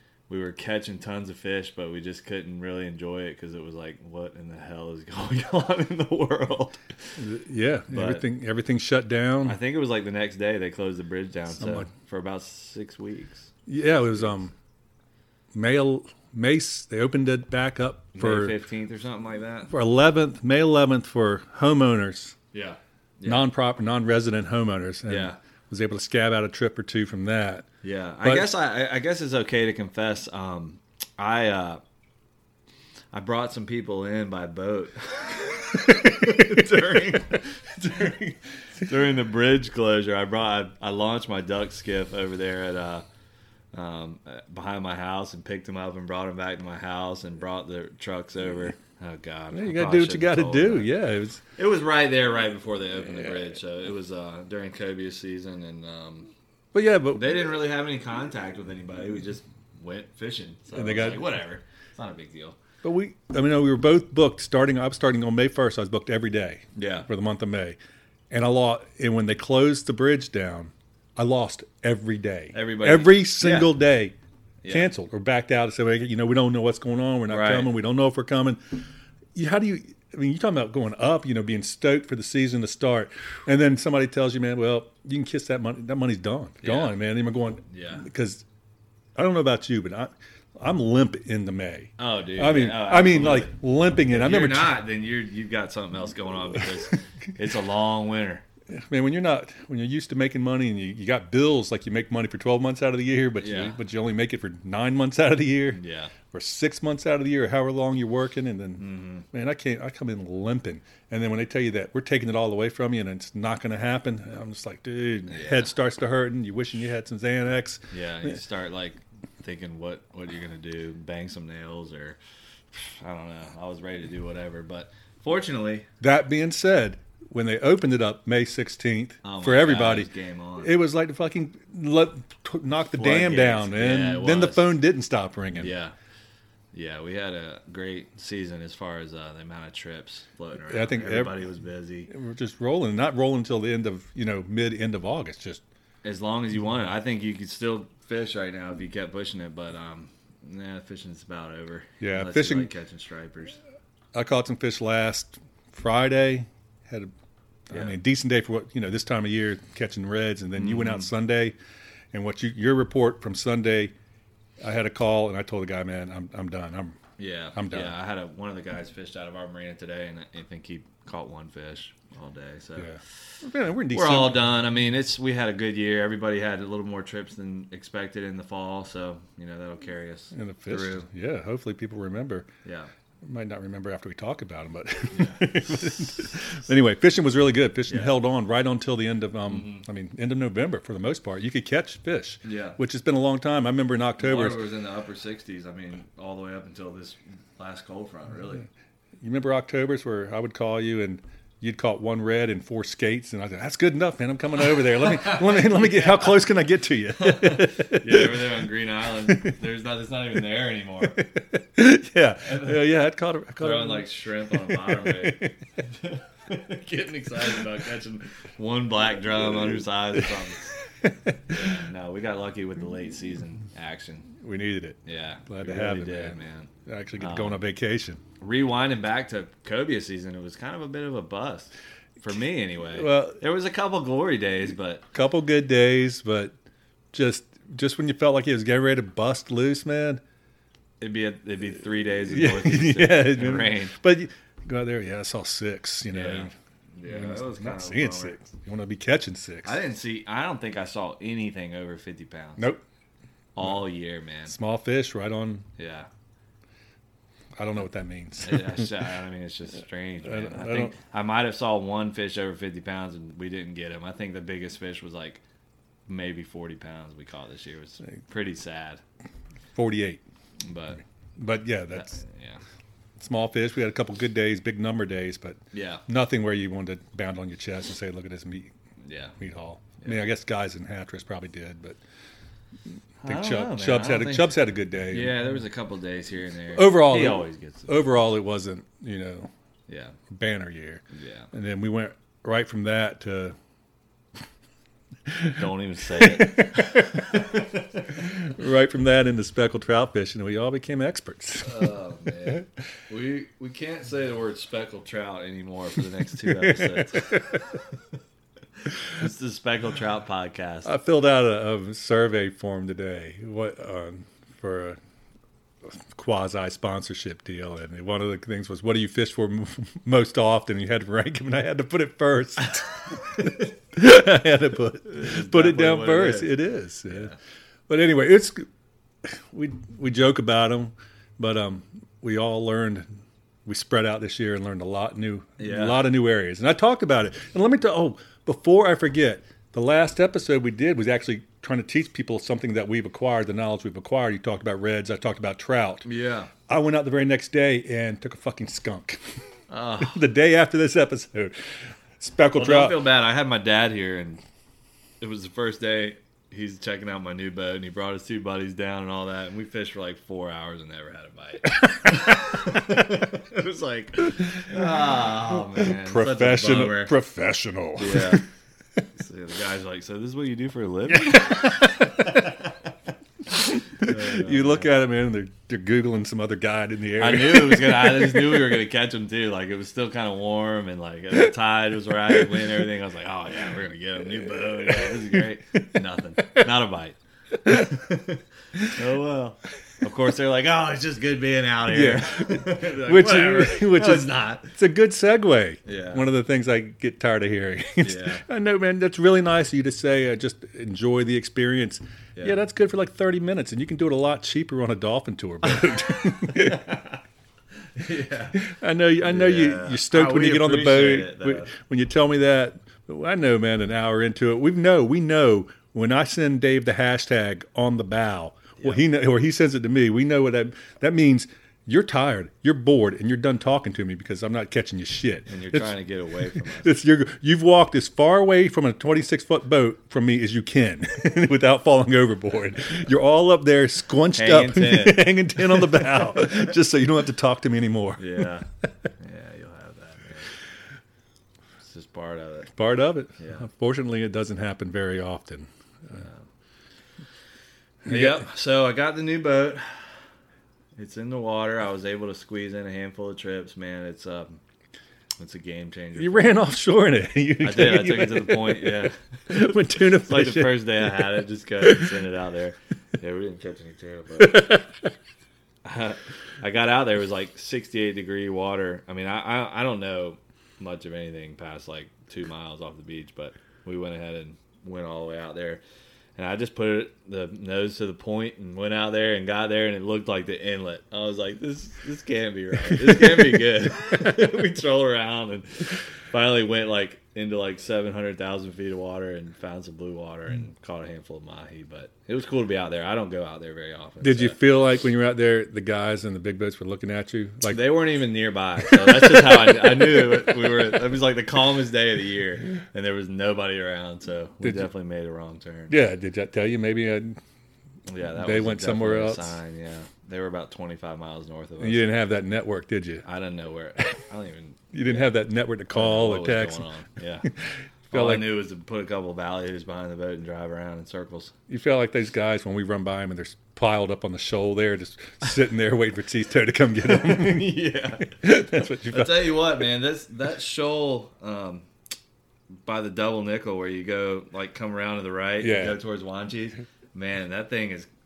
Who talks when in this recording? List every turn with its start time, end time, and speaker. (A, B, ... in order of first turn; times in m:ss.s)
0:00.3-0:07.2 A
0:07.2-0:09.6 B
0:07.9-0:08.2 A
0:09.4-0:14.3 A
0:11.5-0:11.9 B
0:13.7-0:14.5 B
0:15.5-0:18.6 B
0:18.2-0:19.7 A
0:19.7-0:22.4 B
0:22.5-0:23.5 A
0:23.2-0:27.7 B
0:25.1-0:25.4 A
0:27.8-0:31.8 A
0:28.2-0:28.5 B
0:33.1-0:43.0 A
0:43.7-0:50.9 A
0:49.5-0:51.4 B
0:51.6-0:56.3 A
0:56.7-0:57.4 B
0:57.1-1:02.6 A
1:00.7-1:01.3 B
1:02.8-1:07.8 B
1:06.8-1:07.1 A
1:08.3-1:14.2 B
1:12.5-1:13.7 A
1:14.6-1:14.9 A
1:14.7-1:28.4 B
1:17.3-1:17.7 A
1:26.6-1:27.0 A
1:27.7-1:28.1 A
1:29.2-1:34.8 B
1:32.0-1:33.5 A
1:34.1-1:38.4 A
1:38.7-1:58.4 B
1:43.4-1:43.8 A
1:45.7-1:46.1 A
1:48.8-1:49.3 A
1:55.3-1:55.7 A
1:57.9-2:02.2 A
2:02.7-2:05.9 A
2:06.0-2:10.1 B
2:09.2-2:10.8 A
2:10.6-2:15.7 B
2:12.9-2:14.7 A
2:15.5-2:15.9 A
2:16.7-2:22.1 A
2:20.6-2:21.4 B
2:22.1-2:25.6 B
2:26.0-2:33.6 A
2:32.0-2:32.7 B
2:34.1-2:37.1 B
2:37.7-2:41.6 B
2:37.7-2:38.0 A
2:40.6-2:41.1 A
2:42.1-2:43.9 B
2:44.6-2:47.0 B
2:47.2-2:53.3 A
2:47.6-2:48.0 B
2:52.8-2:54.5 B
2:53.9-3:01.1 A
3:00.3-3:02.5 B
3:03.2-3:14.6 B
3:05.1-3:06.2 A
3:07.9-3:08.1 A
3:09.5-3:09.8 A
3:12.4-3:12.8 A
3:14.2-3:18.6 A
3:19.2-3:28.7 B
3:24.8-3:26.4 A
3:27.2-3:31.3 A
3:29.3-3:29.5 B
3:31.1-3:35.6 B
3:32.4-3:32.9 A
3:33.6-3:40.8 A
3:40.8-3:41.7 B
3:41.5-3:44.3 A
3:44.3-3:48.2 B
3:45.0-3:47.6 A
3:48.4-3:55.0 A
3:52.9-3:53.4 B
3:55.1-3:56.5 B
3:57.1-4:00.2 B
4:01.0-4:04.0 A
4:02.3-4:06.5 B
4:06.1-4:08.4 A
4:07.0-4:09.8 B
4:09.6-4:12.7 A
4:13.6-4:14.6 A
4:14.5-4:15.7 B
4:15.8-4:16.1 A
4:17.6-4:19.0 B
4:18.4-4:25.4 A
4:20.2-4:20.9 B
4:26.1-4:29.0 A
4:29.8-4:30.2 B
4:30.6-4:31.0 A
4:31.4-4:32.2 B
4:31.9-4:32.6 A
4:33.2-4:38.7 B
4:35.7-4:36.0 A
4:39.0-4:39.4 A
4:39.4-4:42.0 B
4:43.2-4:44.6 A
4:43.2-4:45.4 B
4:45.1-4:48.0 A
4:46.7-4:49.5 B
4:49.9-4:50.2 A
4:50.3-4:53.6 B
4:51.1-4:51.5 A
4:55.3-4:55.6 B
4:55.6-4:58.2 A
4:56.2-4:57.5 B
4:58.1-5:01.9 B
5:01.6-5:07.8 A
5:06.4-5:07.7 B
5:09.0-5:10.9 A
5:10.8-5:15.0 B
5:15.9-5:27.3 B
5:25.0-5:26.6 A
5:27.1-5:27.4 A
5:27.9-5:28.6 B
5:29.2-5:33.1 B
5:33.7-5:46.1 B
5:35.6-5:36.0 A
5:46.0-5:46.5 A
5:46.7-5:49.2 B
5:49.7-5:50.2 A
5:50.0-5:53.1 B
5:52.6-5:54.4 A
5:55.2-6:07.1 A
6:01.8-6:02.9 B
6:04.5-6:08.4 B
6:08.0-6:08.4 A
6:09.1-6:12.8 A
6:11.1-6:12.6 B
6:13.5-6:18.8 B
6:14.0-6:14.9 A
6:17.2-6:34.7 A
6:24.4-6:25.8 B
6:27.6-6:28.0 B
6:31.9-6:46.9 B
6:35.8-6:36.2 A
6:38.0-6:38.4 A
6:46.3-6:47.2 A
6:48.0-6:48.6 A
6:48.5-7:06.0 B
6:49.2-6:51.7 A
7:05.5-7:06.9 A
7:06.5-7:18.5 B
7:14.3-7:16.0 A
7:18.2-7:20.5 A
7:21.8-7:22.7 A
7:22.7-7:26.2 B
7:23.4-7:23.7 A
7:26.1-7:26.5 A
7:28.0-7:28.5 B
7:28.1-7:30.1 A
7:31.0-7:34.6 A
7:35.4-7:36.6 A
7:36.2-7:42.2 B
7:37.6-7:39.2 A
7:40.0-7:44.7 A
7:44.4-7:45.1 B
7:45.8-7:55.8 A
7:56.4-8:14.6 A
8:14.2-8:17.8 B
8:17.7-8:26.0 A
8:18.8-8:20.7 B
8:24.6-8:24.9 B
8:25.9-8:27.4 B
8:28.1-8:32.1 A
8:28.4-8:29.6 B
8:31.8-8:33.2 B
8:33.2-8:35.3 A
8:34.9-8:36.9 B
8:35.9-8:37.5 A
8:37.4-8:38.5 B
8:38.1-8:41.6 A
8:41.7-8:47.8 B
8:47.0-8:51.9 A
8:48.3-8:49.8 B
8:52.8-8:58.1 A
8:55.6-8:56.0 B